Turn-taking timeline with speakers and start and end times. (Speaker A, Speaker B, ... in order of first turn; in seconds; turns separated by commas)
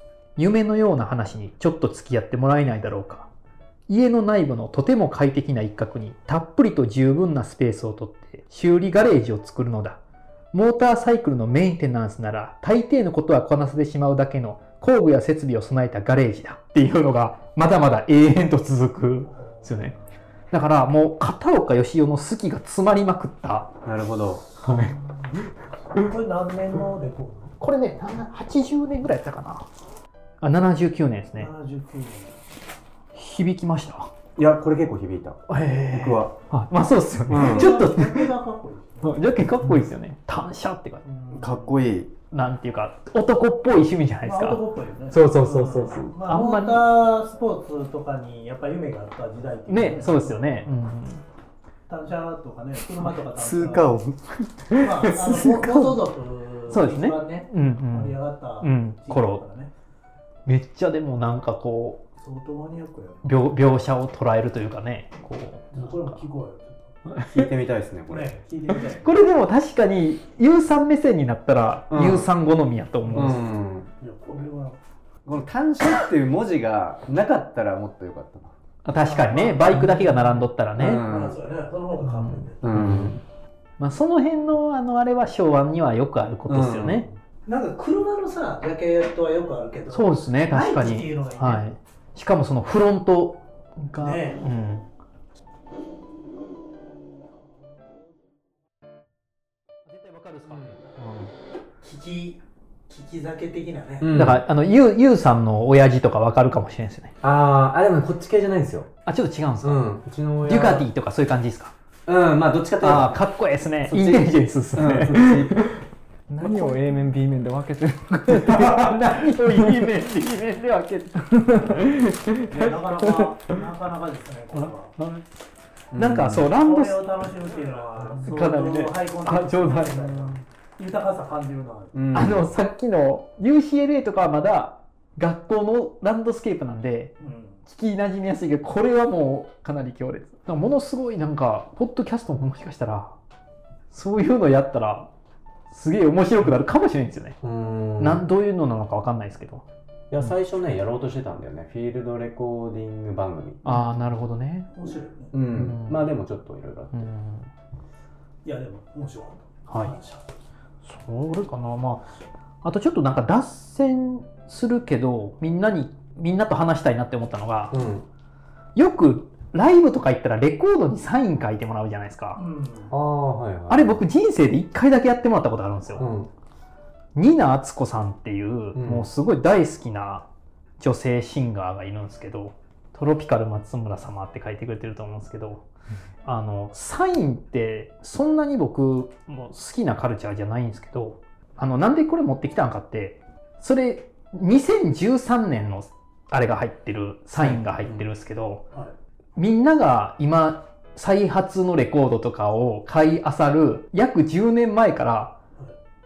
Speaker A: 0.4-3.3, Speaker A: 3.9-10.0, Speaker A: 10.5-19.9, Speaker B: 19.3-20.0, Speaker A: 20.5-23.7, Speaker C: 23.9-24.4, Speaker A: 24.6-24.9, Speaker B: 24.6-27.6, Speaker A: 27.6-29.7, Speaker A: 30.4-31.5, Speaker B: 31.4-32.4, Speaker A: 33.1-34.1, Speaker C: 34.4-36.3, Speaker A: 35.5-38.3, Speaker C: 37.3-37.8, Speaker B: 37.3-39.3, Speaker A: 39.0-41.0, Speaker B: 41.0-41.8, Speaker C: 41.3-42.1, Speaker A: 42.3-46.8, Speaker B: 44.2-50.7, Speaker A: 49.7-51.2, Speaker B: 51.9-54.0, Speaker C: 53.3-54.4, Speaker A: 54.7-56.0, Speaker B: 54.7-59.7, Speaker A: 56.7-59.4, Speaker A: 60.5-62.0, Speaker B: 62.2-63.3, Speaker A: 63.2-66.2, Speaker B: 65.7-67.0, Speaker A: 67.1-67.4, Speaker C: 67.2-68.3, Speaker B: 68.1-69.2, Speaker A: 69.0-73.5, Speaker C: 71.9-72.3, Speaker C: 73.1-73.9, Speaker B: 74.0-74.8, Speaker C: 75.3-78.5, Speaker A: 78.8-81.1, Speaker B: 79.0-82.6, Speaker C: 80.8-81.4, Speaker A: 82.1-83.2, Speaker C: 82.6-83.2, Speaker A: 83.8-87.1, Speaker C: 86.5-87.1, Speaker B: 87.5-91.7, Speaker A: 89.9-94.9, Speaker B: 94.0-94.4, Speaker A: 99.9-101.3, Speaker B: 101.8-104.2, Speaker C: 104.0-104.4, Speaker A: 104.1-107.1, Speaker C: 107.2-108.9, Speaker A: 109.1-111.7, Speaker C: 109.6-110.9, Speaker C: 112.1-113.2, Speaker A: 112.8-115.8, Speaker C: 113.9-115.8, Speaker D: 116.3-118.8, Speaker C: 116.4-116.8, Speaker A: 118.3-122.3, Speaker C: 118.5-119.0, Speaker D: 121.8-122.1, Speaker B: 122.3-124.9, Speaker A: 125.0-125.2, Speaker C: 125.9-126.5, Speaker A: 125.9-127.1, Speaker B: 126.6-131.9, Speaker A: 128.1-130.4, Speaker C: 131.9-132.5, Speaker A: 132.1-137.1, Speaker B: 137.2-137.6, Speaker A: 137.7-143.2, Speaker A: 143.9-145.1, Speaker A: 145.7-147.4, Speaker C: 147.4-148.2, Speaker A: 148.0-149.7, Speaker C: 150.1-153.6, Speaker A: 153.6-154.7, Speaker B: 154.7-155.3, Speaker C: 155.3-156.9, Speaker A: 155.5-156.1, Speaker A: 156.9-157.5, Speaker B: 158.4-160.2, Speaker A: 159.7-159.9, Speaker A: 160.8-162.1, Speaker A: 162.6-167.8, Speaker C: 167.7-168.1, Speaker A: 168.8-172.4, Speaker B: 172.4-172.9, Speaker C: 172.9-174.0, Speaker A: 173.7-176.1, Speaker C: 176.0-176.3, Speaker A: 177.2-180.3, Speaker C: 178.8-179.1, Speaker A: 180.8-185.6, Speaker A: 186.2-198.7, Speaker C: 197.4-198.1, Speaker A: 199.4-205.4